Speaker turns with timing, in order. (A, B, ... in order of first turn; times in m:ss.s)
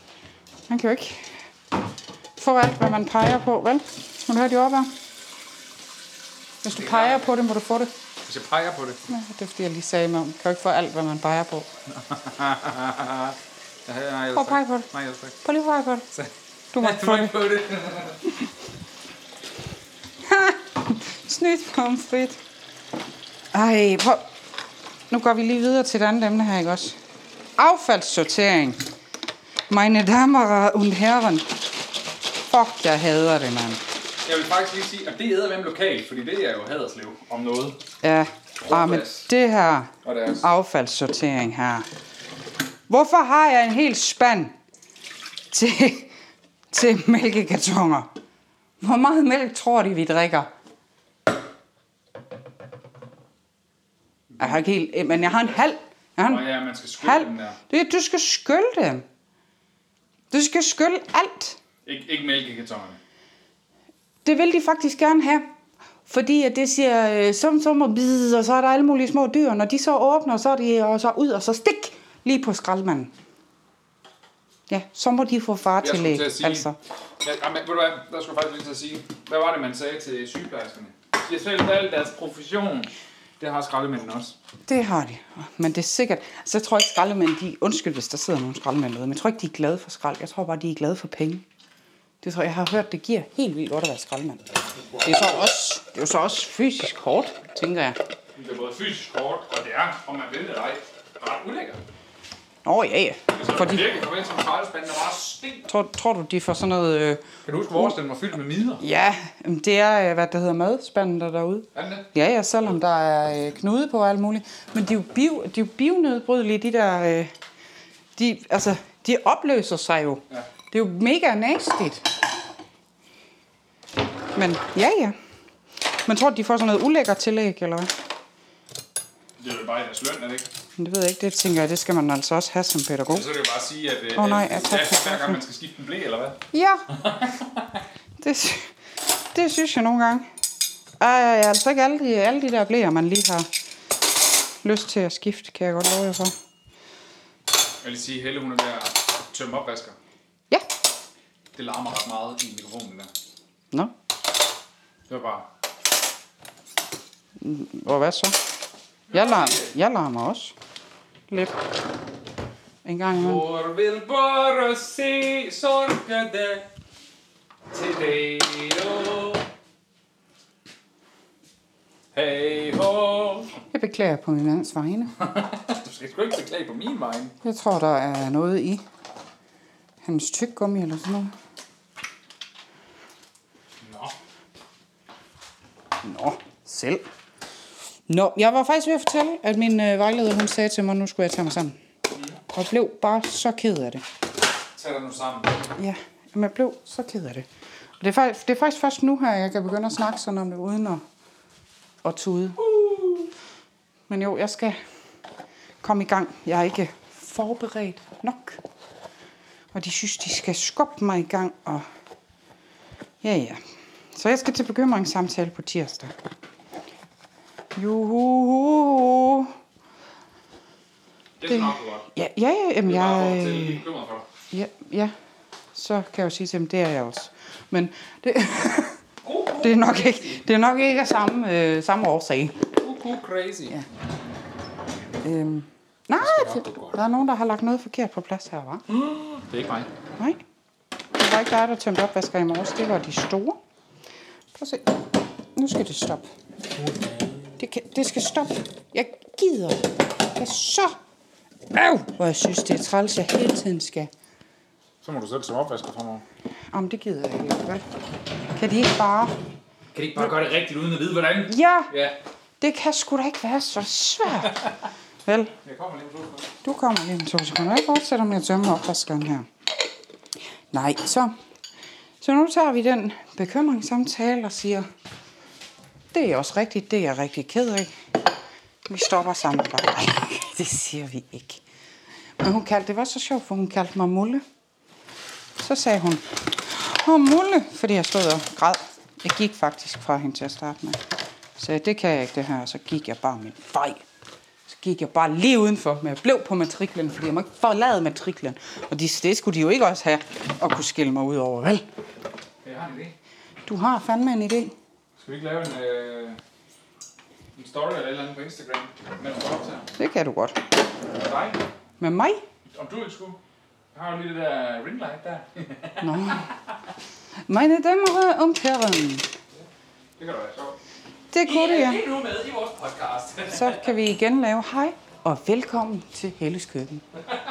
0:00.7-0:01.3 A
0:02.4-0:04.9 A
0:06.6-0:07.9 A
0:06.7-0:07.3 B
0:08.2-0:09.0 B
0:09.1-0:11.7 A
0:11.9-0:15.4 B
0:14.3-0:14.9 A
0:15.4-0:16.1 A
0:16.1-0:18.2 B
0:16.7-0:17.4 A
0:20.2-0:22.4 A
0:23.5-0:24.3 A
0:25.1-0:27.0 A
0:27.6-0:28.8 A
0:29.7-0:31.6 A
0:32.4-0:33.8 A
0:34.2-0:37.8 B
0:38.0-0:41.9 A
0:38.6-0:39.3 B
0:40.0-0:40.4 B
0:42.9-0:44.5 A
0:45.5-0:46.1 A
0:46.7-0:48.1 A
0:48.8-0:50.5 A
0:54.3-0:54.6 B
0:54.4-0:59.0 A
0:56.2-0:57.6 B
1:00.3-1:01.6 A
1:01.8-1:03.0 B
1:04.2-1:05.5 A
1:06.0-1:13.1 A
1:14.7-1:16.8 A
1:15.8-1:16.7 B
1:17.2-1:24.4 B
1:24.7-1:31.4 A
1:32.2-1:34.4 A
1:34.8-1:35.5 B
1:35.0-1:38.0 A
1:38.4-1:41.8 B
1:42.6-1:43.9 A
1:43.3-1:45.7 B
1:45.6-1:47.9 A
1:47.4-1:48.8 B
1:48.8-1:57.3 A
1:51.7-1:52.1 B
1:58.2-2:02.1 A
2:04.3-2:05.2 A
2:06.0-2:07.9 A
2:09.4-2:10.5 B
2:10.8-2:13.3 A
2:13.1-2:16.4 B
2:14.1-2:15.4 A
2:16.5-2:16.9 A
2:16.9-2:17.8 B
2:18.2-2:18.7 A
2:19.3-2:20.3 A
2:21.0-2:23.5 A
2:24.6-2:26.3 A
2:27.8-2:30.0 B
2:31.5-2:33.1 B
2:35.1-2:35.5 B
2:37.4-2:38.4 A
2:39.1-2:39.7 B
2:39.1-2:40.5 A
2:41.3-2:41.6 A
2:42.8-2:43.4 A
2:43.1-2:46.7 B
2:47.7-2:49.4 B
2:52.1-2:53.5 B
2:53.7-2:55.1 A
2:55.2-2:57.4 B
2:57.4-2:58.8 A
3:00.0-3:01.3 A
3:03.8-3:04.1 B
3:06.0-3:07.0 A
3:08.1-3:11.8 A
3:12.1-3:12.4 B
3:12.5-3:14.0 A
3:14.7-3:15.6 B
3:15.8-3:17.4 A
3:18.0-3:21.0 A
3:22.0-3:22.6 A
3:22.6-3:23.3 B
3:24.1-3:24.8 A
3:25.8-3:28.6 A
3:29.7-3:31.9 A
3:33.2-3:33.6 A
3:34.1-3:36.1 A
3:37.7-3:39.5 A
3:41.4-3:42.1 B
3:41.5-3:43.8 A
3:42.8-3:44.3 B
3:44.5-3:45.1 A
3:45.7-3:49.0 A
3:49.2-3:50.4 B
3:49.6-3:52.6 A
3:52.8-3:53.8 B
3:55.2-3:58.8 A
3:56.2-3:57.0 B
3:58.9-3:59.9 B
4:01.1-4:03.6 A
4:04.6-4:04.9 A
4:05.5-4:06.3 A
4:06.8-4:07.5 B
4:07.6-4:11.0 A
4:11.7-4:14.1 A
4:15.0-4:16.2 B
4:16.7-4:17.8 A
4:18.5-4:19.4 A
4:19.9-4:22.2 B
4:21.5-4:21.9 A
4:22.6-4:24.6 A
4:25.2-4:25.5 A
4:25.6-4:26.5 B
4:26.6-4:29.5 A
4:30.7-4:31.3 A
4:32.2-4:34.9 A
4:36.1-4:37.9 A
4:38.9-4:41.6 A
4:42.4-4:44.4 A
4:45.6-4:51.0 A
4:51.6-4:54.0 A
4:54.7-5:01.8 A
5:02.6-5:03.1 B
5:03.6-5:04.7 A
5:05.2-5:06.4 B
5:07.6-5:09.9 B
5:10.0-5:10.6 A
5:11.1-5:11.6 B
5:12.0-5:12.4 A
5:12.7-5:13.4 B
5:13.9-5:16.5 B
5:16.0-5:16.5 A
5:17.5-5:19.3 A
5:20.2-5:20.8 B
5:21.3-5:22.0 A
5:21.4-5:23.9 B
5:23.5-5:27.0 A